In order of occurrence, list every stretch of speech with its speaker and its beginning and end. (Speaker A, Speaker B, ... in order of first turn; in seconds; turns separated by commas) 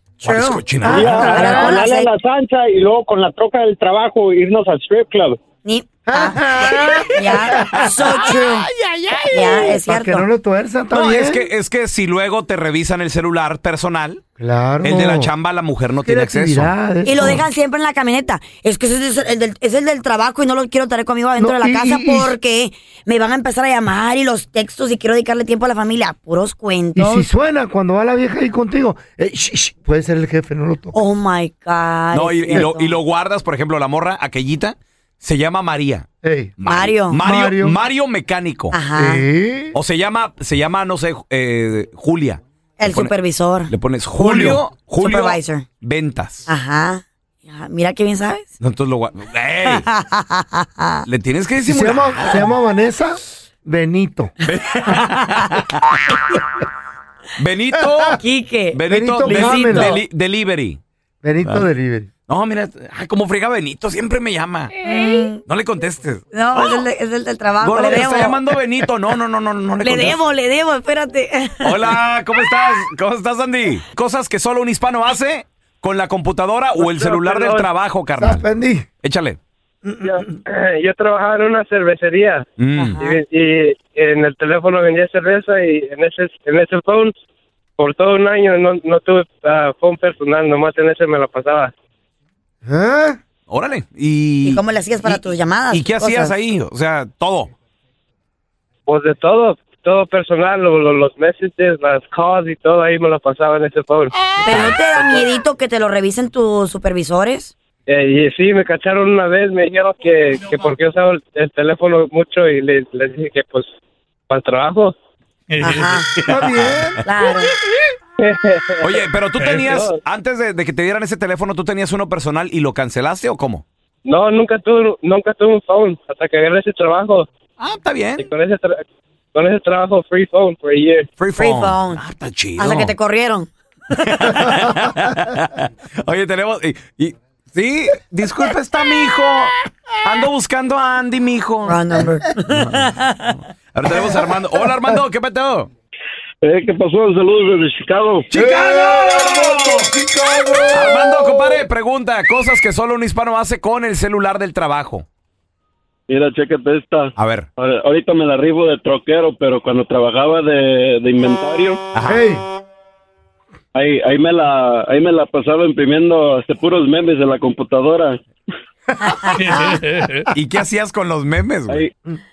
Speaker A: 0.2-0.6, Speaker B: 0.2-1.6, Speaker C: 0.8-1.7, Speaker D: 0.9-5.4, Speaker A: 1.3-2.1, Speaker A: 5.6-8.7, Speaker C: 6.0-11.5, Speaker A: 9.3-10.2, Speaker B: 10.9-14.2, Speaker C: 14.4-15.3, Speaker B: 14.8-16.7, Speaker C: 16.0-17.4, Speaker A: 17.0-27.3, Speaker C: 21.4-22.3, Speaker C: 26.9-31.0, Speaker A: 30.9-33.0, Speaker B: 32.1-36.0, Speaker C: 36.2-36.5, Speaker B: 36.6-38.8, Speaker A: 36.6-37.2, Speaker C: 37.2-37.8, Speaker A: 38.7-39.2, Speaker C: 38.9-39.8, Speaker B: 39.7-43.1, Speaker A: 42.8-43.7, Speaker B: 43.7-46.5, Speaker C: 44.1-44.6, Speaker A: 45.0-45.6, Speaker A: 46.5-48.5, Speaker B: 48.6-49.9, Speaker A: 49.7-51.0, Speaker B: 51.0-52.4, Speaker C: 51.6-54.3, Speaker B: 54.4-56.4, Speaker B: 57.4-58.2, Speaker C: 57.9-58.1, Speaker A: 58.2-59.9, Speaker B: 58.7-60.8, Speaker C: 58.9-60.0, Speaker C: 61.2-62.1, Speaker B: 62.3-64.7, Speaker A: 64.8-65.4, Speaker B: 65.5-66.8, Speaker A: 66.3-68.4, Speaker B: 67.6-70.2, Speaker A: 69.8-71.9, Speaker B: 71.6-78.5, Speaker E: 76.8-77.7, Speaker C: 78.2-78.8, Speaker B: 79.0-79.4, Speaker E: 80.0-82.5, Speaker B: 82.6-83.0, Speaker A: 82.8-83.2, Speaker E: 83.0-87.1, Speaker E: 87.8-91.7, Speaker C: 92.6-93.2, Speaker B: 93.5-97.5, Speaker A: 94.4-96.3, Speaker E: 98.9-104.2, Speaker A: 104.4-107.5, Speaker B: 104.5-104.8, Speaker E: 107.9-113.7, Speaker E: 114.3-114.9, Speaker A: 115.6-116.1, Speaker C: 116.2-117.0, Speaker B: 116.3-116.9, Speaker A: 117.0-117.5, Speaker E: 118.2-120.0, Speaker B: 118.8-123.6, Speaker E: 124.0-127.3, Speaker B: 127.6-128.2, Speaker E: 128.2-128.8, Speaker E: 129.3-131.1, Speaker B: 131.2-132.9, Speaker A: 131.3-132.0, Speaker A: 132.6-134.4, Speaker B: 134.1-145.7, Speaker A: 141.7-143.3, Speaker F: 146.4-148.3, Speaker B: 148.3-149.9, Speaker C: 148.3-151.6, Speaker B: 150.7-155.1, Speaker F: 156.1-161.8, Speaker B: 157.2-157.5, Speaker B: 161.9-162.2, Speaker C: 162.0-162.4, Speaker F: 163.7-168.2, Speaker B: 170.3-171.9